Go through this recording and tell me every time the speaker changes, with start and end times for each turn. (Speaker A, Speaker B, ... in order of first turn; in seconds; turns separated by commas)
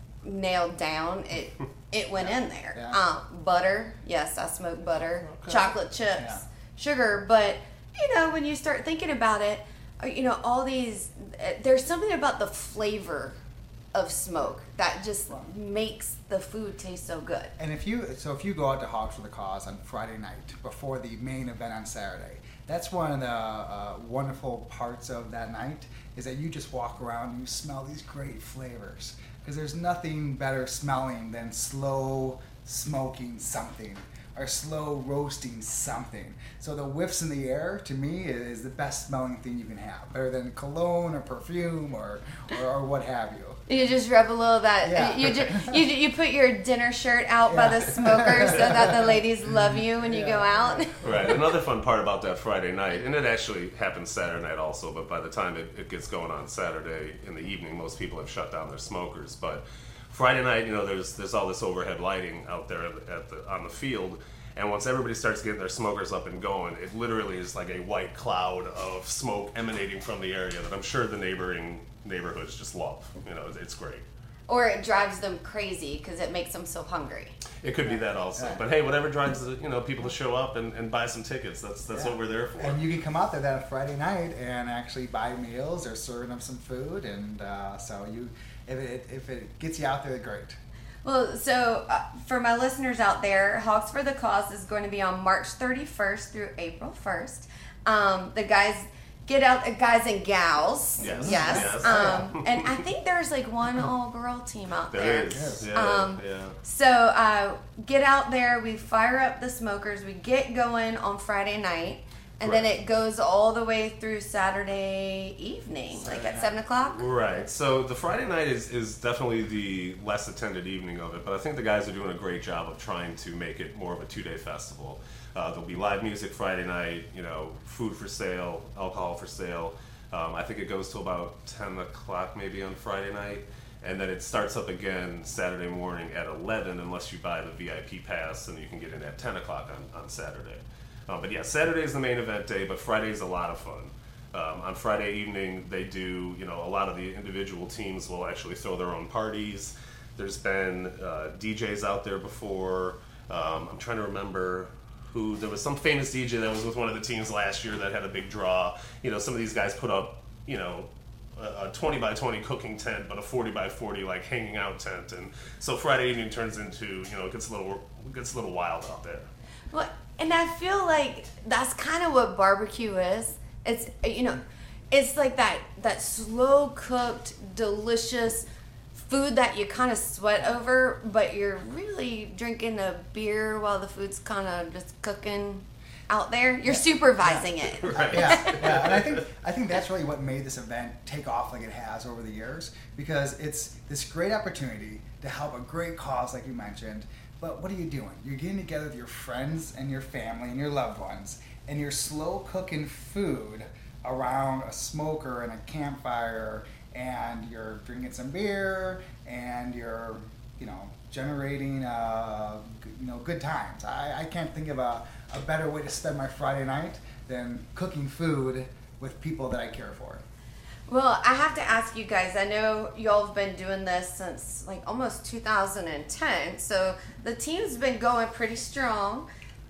Speaker A: 0.2-13.4, Speaker B: 2.7-3.0, Speaker C: 5.2-5.7, Speaker B: 6.2-6.4, Speaker A: 13.9-17.5, Speaker B: 17.6-43.6, Speaker A: 43.7-51.3, Speaker B: 44.8-45.8, Speaker B: 47.5-51.4, Speaker C: 51.0-74.0, Speaker A: 74.5-77.4, Speaker C: 77.6-82.8, Speaker B: 77.8-78.6, Speaker B: 81.9-90.6, Speaker A: 91.0-117.0, Speaker C: 101.0-102.8, Speaker B: 101.0-102.3, Speaker C: 104.9-106.6, Speaker B: 105.3-105.7, Speaker C: 112.4-112.7, Speaker B: 115.9-116.6, Speaker C: 116.8-169.3, Speaker A: 169.7-188.7, Speaker B: 186.7-220.2, Speaker C: 187.8-189.2, Speaker A: 220.9-229.3